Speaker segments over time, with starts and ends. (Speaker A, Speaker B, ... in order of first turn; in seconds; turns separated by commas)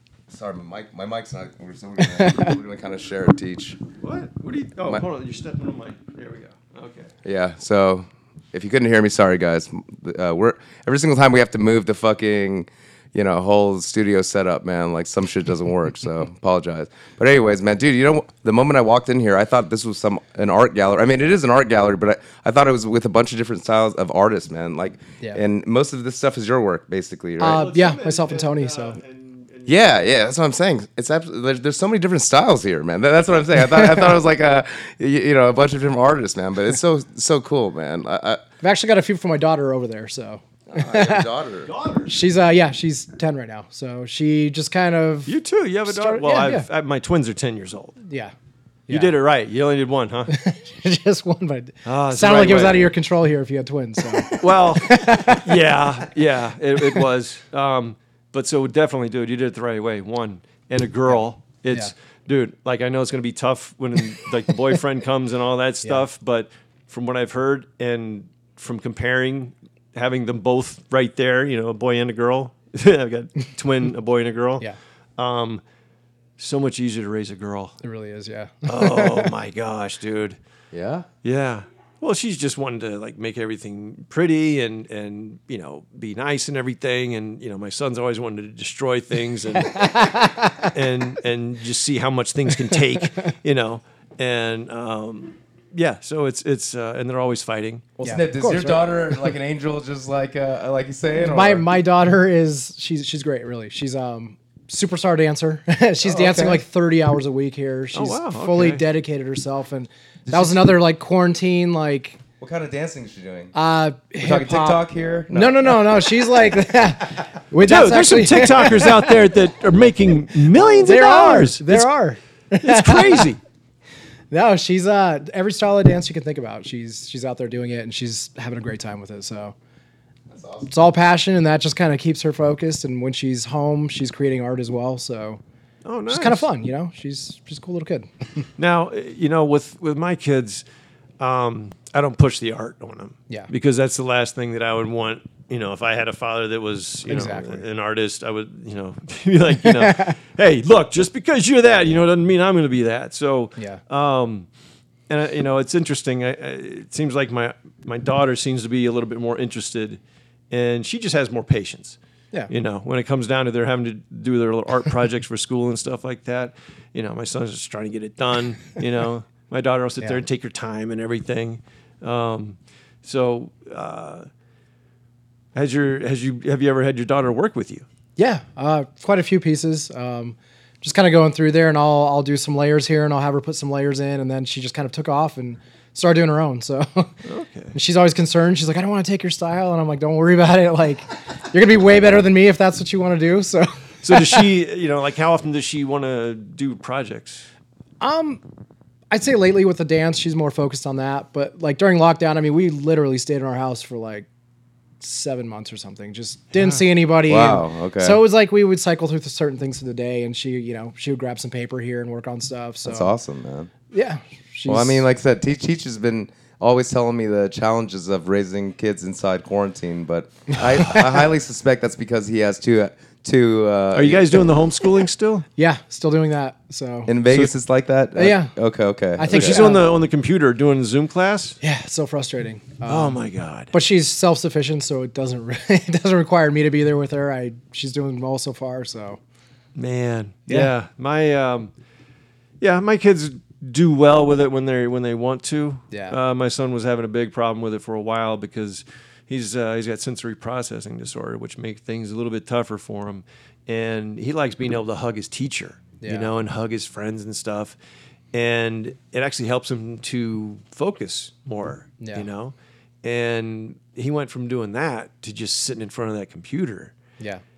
Speaker A: 0.3-3.8, Speaker B: 2.0-2.5, Speaker C: 4.0-7.1, Speaker A: 7.2-27.6, Speaker B: 27.4-29.0, Speaker C: 27.5-30.1, Speaker A: 29.7-38.4, Speaker B: 38.6-41.3, Speaker A: 40.7-41.7, Speaker C: 41.6-42.2, Speaker B: 42.1-45.3, Speaker C: 45.3-48.0, Speaker B: 45.9-46.7, Speaker B: 48.1-48.3, Speaker B: 48.9-49.1, Speaker C: 48.9-50.4, Speaker B: 50.3-55.6, Speaker C: 51.9-52.9, Speaker C: 54.3-74.7, Speaker C: 75.2-75.6, Speaker C: 76.4-77.8, Speaker B: 77.8-79.3, Speaker C: 78.7-80.4, Speaker A: 80.7-81.1, Speaker C: 81.2-97.9, Speaker B: 89.6-90.7, Speaker B: 92.7-93.0, Speaker A: 98.0-101.7, Speaker B: 98.0-99.3, Speaker B: 101.2-112.2, Speaker A: 106.0-106.6, Speaker C: 107.9-108.8, Speaker A: 110.3-110.7, Speaker A: 112.4-113.5, Speaker B: 113.5-119.2, Speaker A: 114.2-115.8, Speaker C: 117.6-121.9, Speaker B: 120.8-123.3, Speaker C: 122.6-123.4, Speaker B: 124.3-129.6, Speaker A: 130.3-130.7, Speaker B: 130.7-135.4, Speaker C: 135.8-136.5, Speaker B: 136.1-138.1, Speaker C: 138.6-140.6, Speaker C: 141.2-154.5, Speaker B: 147.1-147.7, Speaker B: 149.7-150.2, Speaker C: 155.1-160.0, Speaker C: 160.5-162.0, Speaker C: 162.5-174.3, Speaker C: 175.6-177.8, Speaker B: 178.2-187.1, Speaker C: 187.2-187.7, Speaker B: 187.7-194.5, Speaker C: 194.0-197.5, Speaker B: 198.0-198.4, Speaker B: 199.1-204.3, Speaker B: 205.0-213.1, Speaker C: 206.6-206.8, Speaker A: 207.3-208.2, Speaker A: 212.8-213.7, Speaker B: 213.9-215.1, Speaker A: 214.7-224.6, Speaker C: 223.9-225.5, Speaker B: 225.6-227.1, Speaker A: 227.1-229.7, Speaker B: 228.2-228.5, Speaker B: 229.2-229.9, Speaker C: 229.3-231.6, Speaker B: 231.6-233.2, Speaker C: 232.9-233.7, Speaker B: 233.7-239.2, Speaker C: 239.8-241.7, Speaker C: 242.6-257.8, Speaker B: 245.9-246.2, Speaker B: 256.0-256.3, Speaker C: 258.3-266.9